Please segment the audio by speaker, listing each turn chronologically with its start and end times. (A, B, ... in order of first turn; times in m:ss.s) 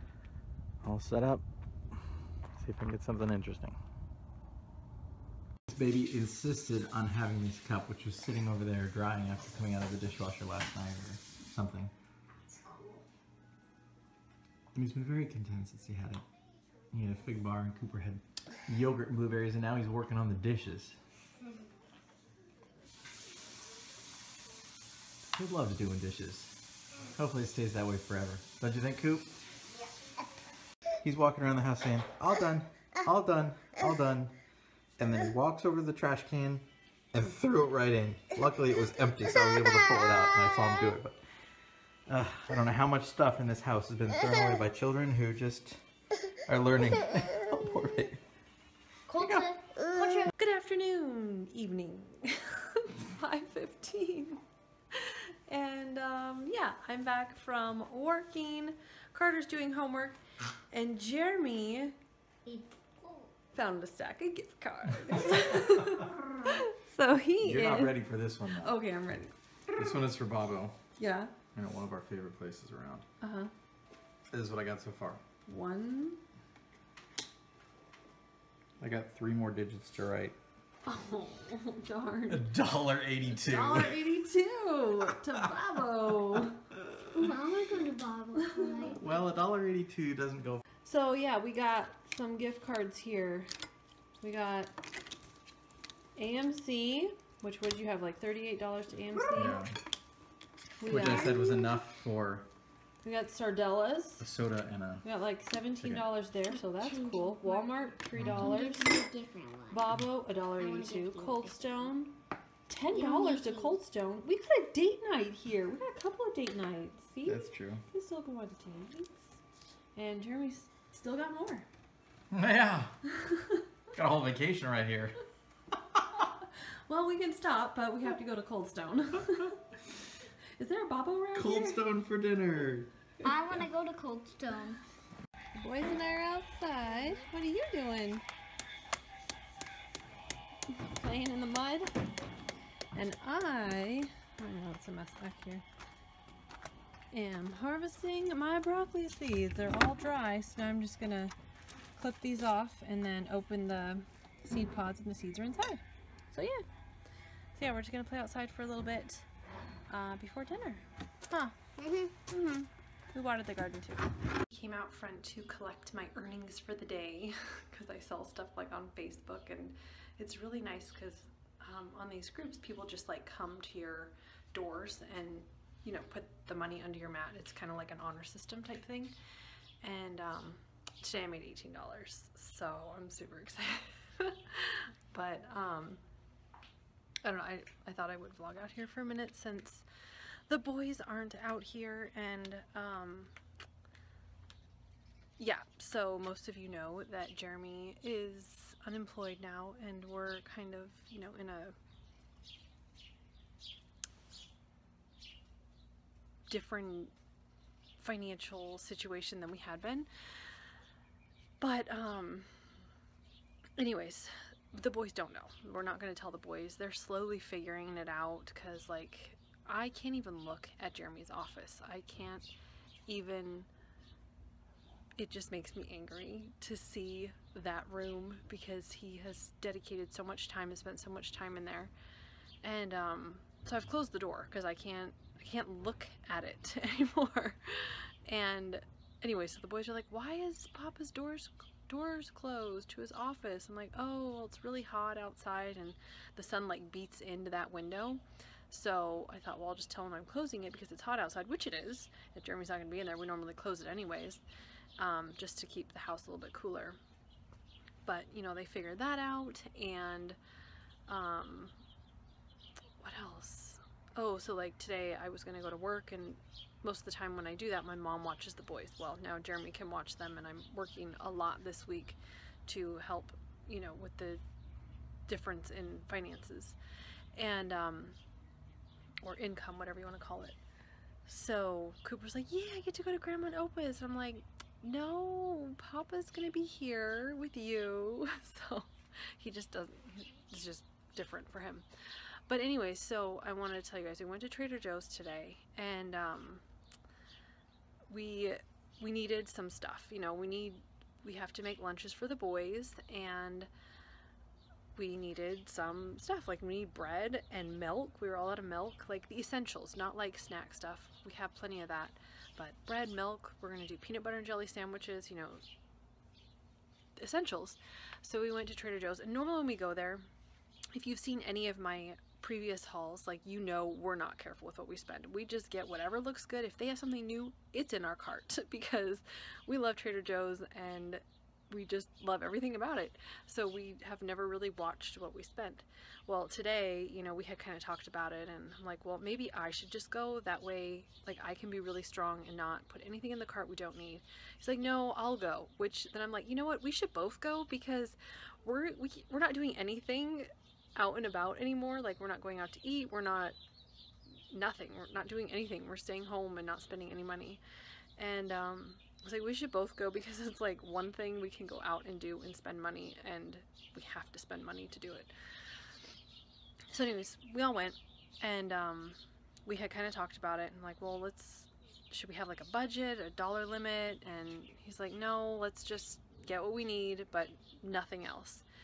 0:00.8-0:02.0 A
0:02.6-0:03.8 A
0:05.7-0:11.9 A
0:12.5-0:13.0 B
0:14.7-0:16.2 A
0:16.9-0:21.0 A
0:25.3-0:29.3 A
0:31.0-0:34.3 A
0:35.0-0:41.2 A
0:42.1-0:45.8 A
0:46.5-0:48.2 A
0:49.1-0:50.3 B
0:49.2-0:49.5 A
0:50.3-1:00.2 C
1:00.7-1:02.0 C
1:02.4-1:03.3 B
1:03.5-1:08.0 C
1:07.4-1:08.7 A
1:08.5-1:09.3 C
1:09.8-1:10.8 A
1:11.0-1:11.3 C
1:11.6-1:13.0 A
1:13.2-1:13.5 C
1:14.3-1:15.2 A
1:15.5-1:16.2 C
1:18.8-1:20.4 A
1:20.8-1:22.5 C
1:22.3-1:24.0 A
1:23.3-1:26.7 C
1:27.1-1:29.0 B
1:28.4-1:28.9 C
1:28.8-1:30.6 A
1:30.8-1:33.5 C
1:34.2-1:34.8 C
1:36.2-1:39.7 C
1:39.3-1:39.7 A
1:40.8-1:41.6 C
1:40.8-1:42.5 A
1:41.0-1:41.3 B
1:43.0-1:44.3 C
1:44.2-1:45.0 A
1:45.0-1:49.0 C
1:45.8-1:46.0 A
1:46.5-1:49.8 B
1:48.2-1:48.5 A
1:49.7-1:59.4 C
1:50.6-1:51.9 B
1:52.9-1:53.8 B
1:57.2-1:57.8 A
2:00.0-2:01.7 C
2:02.3-2:03.0 A
2:03.1-2:03.6 C
2:03.9-2:05.2 A
2:06.9-2:09.8 C
2:10.6-2:11.8 C
2:11.3-2:12.9 A
2:13.2-2:14.8 B
2:15.5-2:18.2 C
2:20.7-2:21.9 C
2:22.9-2:25.6 C
2:27.1-2:31.3 C
2:32.0-2:36.6 C
2:37.6-2:39.3 C
2:39.9-2:59.1 C
2:59.8-3:06.0 C
3:07.2-3:09.8 C
3:10.5-3:13.3 C
3:15.4-3:21.8 C
3:26.5-3:27.1 C
3:28.0-3:30.1 C
3:31.6-3:32.5 C
3:33.8-3:42.5 C
3:43.1-3:43.7 C
3:45.2-3:51.9 C
3:52.6-4:14.4 C
4:15.0-4:17.0 C
4:18.0-4:20.4 C
4:21.1-4:21.8 C
4:23.0-4:34.4 C
4:35.3-4:36.8 C
4:37.4-4:38.2 C
4:39.2-4:40.6 C
4:41.2-4:51.9 C
4:52.5-4:56.6 C
4:58.1-5:03.7 C
5:04.9-5:15.6 C
5:17.2-5:20.3 C
5:20.9-5:53.6 C
5:54.5-5:57.6 C
5:58.2-6:05.3 C
6:06.9-6:18.6 C